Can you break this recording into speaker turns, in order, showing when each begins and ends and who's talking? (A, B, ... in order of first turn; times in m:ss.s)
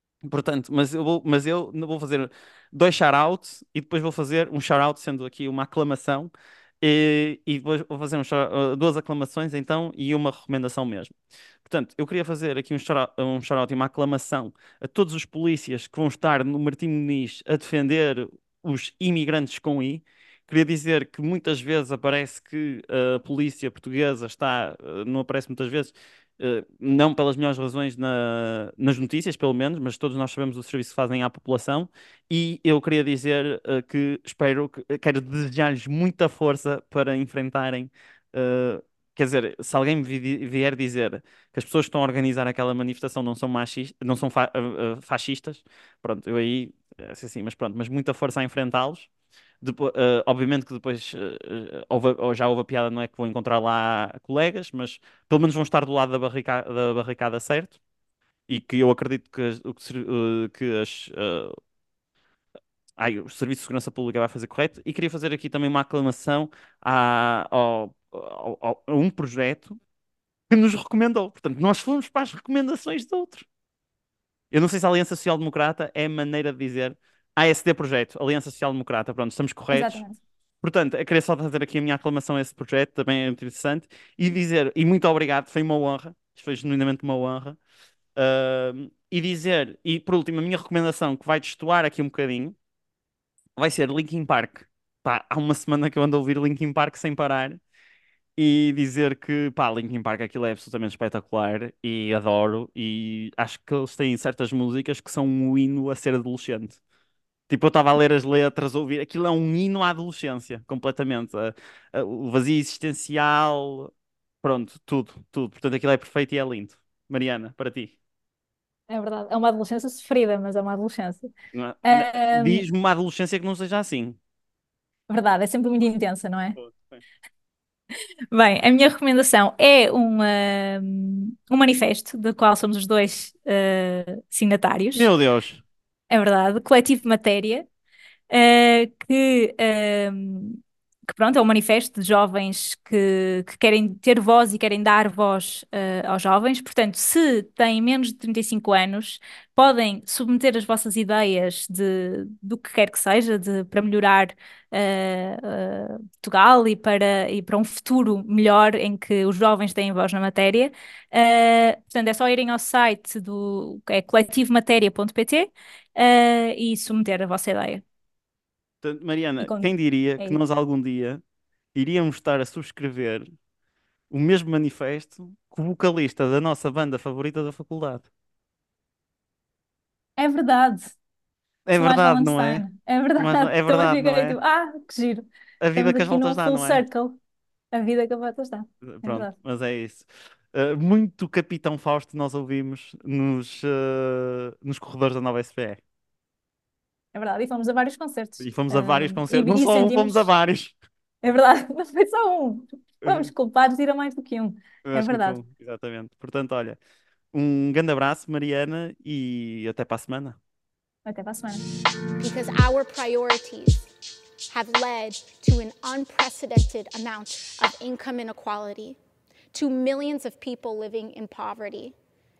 0:00.2-0:49.1 A
0:49.6-0:57.8 A
0:58.5-1:01.5 A
1:03.0-1:09.8 A
1:10.5-1:13.4 A
1:14.5-1:20.0 A
1:19.7-1:20.2 B
1:20.6-1:27.6 A
1:28.2-1:32.6 A
1:33.6-1:37.6 A
1:38.4-1:46.8 A
1:47.5-1:53.9 A
1:54.4-1:57.9 A
1:58.9-2:01.3 B
2:01.5-2:04.2 A
2:01.8-2:02.6 B
2:05.1-2:06.6 B
2:06.6-2:07.0 A
2:08.3-2:15.1 B
2:14.9-2:15.6 A
2:16.1-2:17.7 B
2:18.3-2:47.8 B
2:48.8-2:51.2 A
2:49.4-2:50.4 B
2:51.7-2:53.2 A
2:54.1-2:58.0 A
3:00.2-3:00.9 B
3:01.6-3:02.6 A
3:01.8-3:07.2 B
3:03.2-3:04.4 A
3:05.6-3:06.8 A
3:07.7-3:09.3 B
3:08.8-3:15.8 A
3:17.1-3:20.2 B
3:18.4-3:20.7 A
3:21.2-3:25.4 B
3:23.0-3:23.3 A
3:24.8-3:26.8 A
3:27.3-3:30.4 A
3:31.0-3:31.6 B
3:32.2-3:33.9 C
3:34.5-3:39.0 C
3:39.5-3:41.9 C